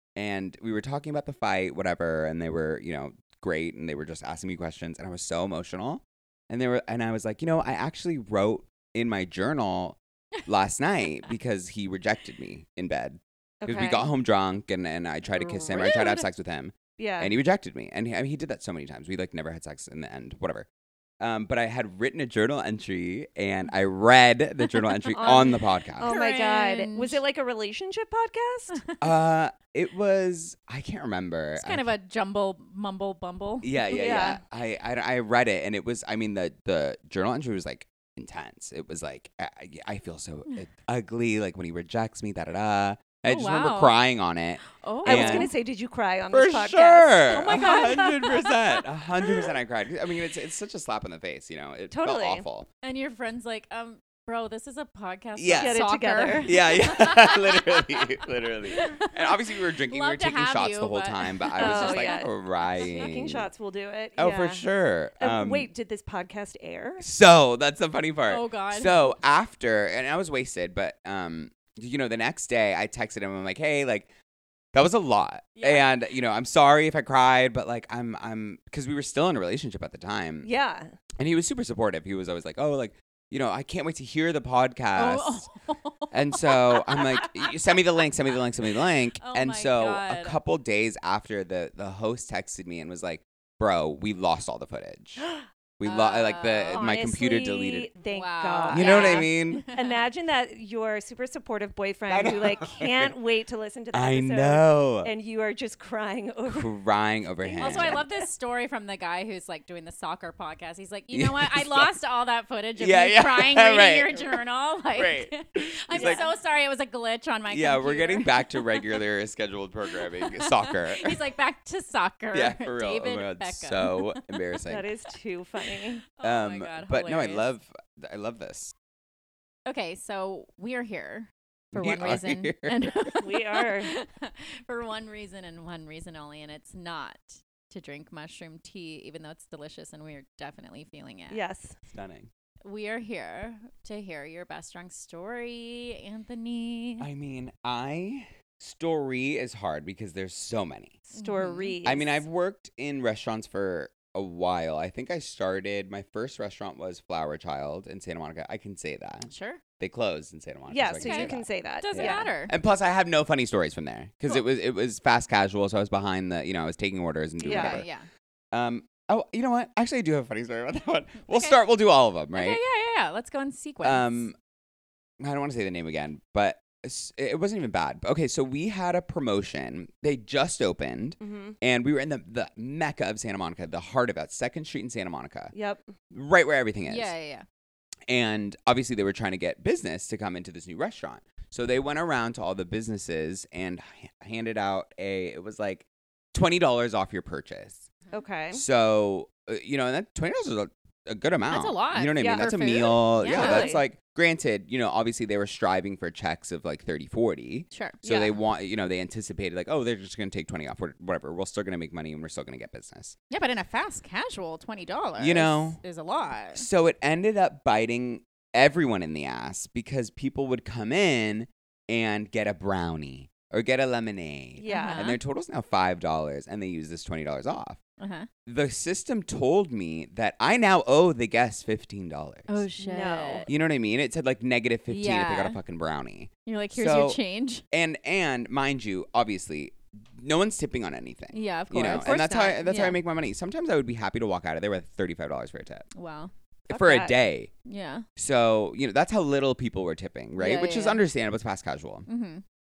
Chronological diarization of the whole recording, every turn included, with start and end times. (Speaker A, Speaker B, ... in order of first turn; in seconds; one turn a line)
Speaker A: 0.2-20.7
Speaker B: 13.6-14.1
Speaker C: 15.4-16.2
Speaker B: 17.0-17.3
Speaker A: 21.2-26.1
Speaker B: 25.1-28.8
Speaker C: 25.2-27.2
Speaker A: 29.0-31.9
Speaker C: 31.6-34.3
Speaker A: 33.6-45.5
Speaker B: 33.9-34.4
Speaker C: 43.3-44.0
Speaker C: 44.8-45.5
Speaker B: 45.0-48.2
Speaker A: 46.3-52.7
Speaker C: 47.4-48.6
Speaker B: 51.9-52.4
Speaker C: 52.8-58.1
Speaker A: 55.4-55.8
Speaker B: 55.6-56.6
Speaker A: 56.4-63.5
Speaker C: 58.7-59.3
Speaker C: 59.9-63.1
Speaker B: 61.6-64.7
Speaker A: 64.2-65.7
Speaker B: 65.2-67.1
Speaker A: 67.0-74.1
Speaker C: 68.3-69.1
Speaker A: 74.7-80.5
Speaker C: 75.6-75.9
Speaker B: 80.4-80.9
Speaker A: 81.2-85.5
Speaker C: 85.0-87.8
Speaker A: 86.1-95.3
Speaker C: 89.2-90.4
Speaker A: 95.8-97.9
Speaker C: 95.8-96.8
Speaker B: 96.7-106.8
Speaker C: 98.1-100.0
Speaker A: 98.7-99.7
Speaker A: 102.1-103.1
Speaker A: 103.9-105.1
Speaker A: 106.5-108.0
Speaker B: 107.4-108.3
Speaker C: 107.6-119.0
Speaker A: 111.1-111.9
Speaker A: 112.8-114.4
Speaker A: 114.9-116.2
Speaker B: 115.9-116.2
Speaker A: 117.5-121.2
Speaker C: 119.9-124.2
Speaker A: 122.3-124.9
Speaker B: 124.7-126.0
Speaker C: 126.1-127.5
Speaker A: 126.2-128.7
Speaker C: 129.7-141.4
Speaker A: 131.7-133.1
Speaker B: 133.2-133.9
Speaker B: 141.3-141.8
Speaker A: 141.9-142.3
Speaker C: 142.7-147.1
Speaker A: 147.0-151.0
Speaker B: 151.1-152.2
Speaker C: 151.2-151.8
Speaker A: 151.8-167.9
Speaker C: 159.3-159.6
Speaker B: 160.7-162.3
Speaker C: 161.0-162.5
Speaker B: 167.4-167.8
Speaker C: 167.4-168.1
Speaker A: 168.5-172.6
Speaker C: 171.3-171.6
Speaker C: 172.3-174.3
Speaker A: 173.8-174.3
Speaker A: 175.2-185.5
Speaker B: 181.2-181.6
Speaker B: 185.5-185.9
Speaker A: 186.1-187.1
Speaker C: 186.9-187.4
Speaker A: 188.1-197.9
Speaker B: 198.1-198.6
Speaker A: 198.5-213.2
Speaker C: 201.5-203.7
Speaker B: 202.2-203.8
Speaker C: 207.7-208.0
Speaker B: 208.0-208.4
Speaker C: 213.3-216.7
Speaker A: 215.2-215.8
Speaker A: 216.5-227.8
Speaker B: 224.6-225.1
Speaker C: 224.7-225.2
Speaker C: 228.0-228.3
Speaker A: 228.5-232.7
Speaker C: 232.5-233.5
Speaker B: 232.8-233.5
Speaker A: 233.5-237.2
Speaker C: 234.9-235.6
Speaker C: 236.4-237.6
Speaker A: 237.7-245.9
Speaker C: 241.3-243.0
Speaker B: 242.0-242.6
Speaker C: 245.9-246.3
Speaker A: 246.7-247.5
Speaker B: 246.7-247.1
Speaker C: 247.7-248.1
Speaker A: 248.2-252.1
Speaker C: 250.4-251.0
Speaker C: 252.1-252.4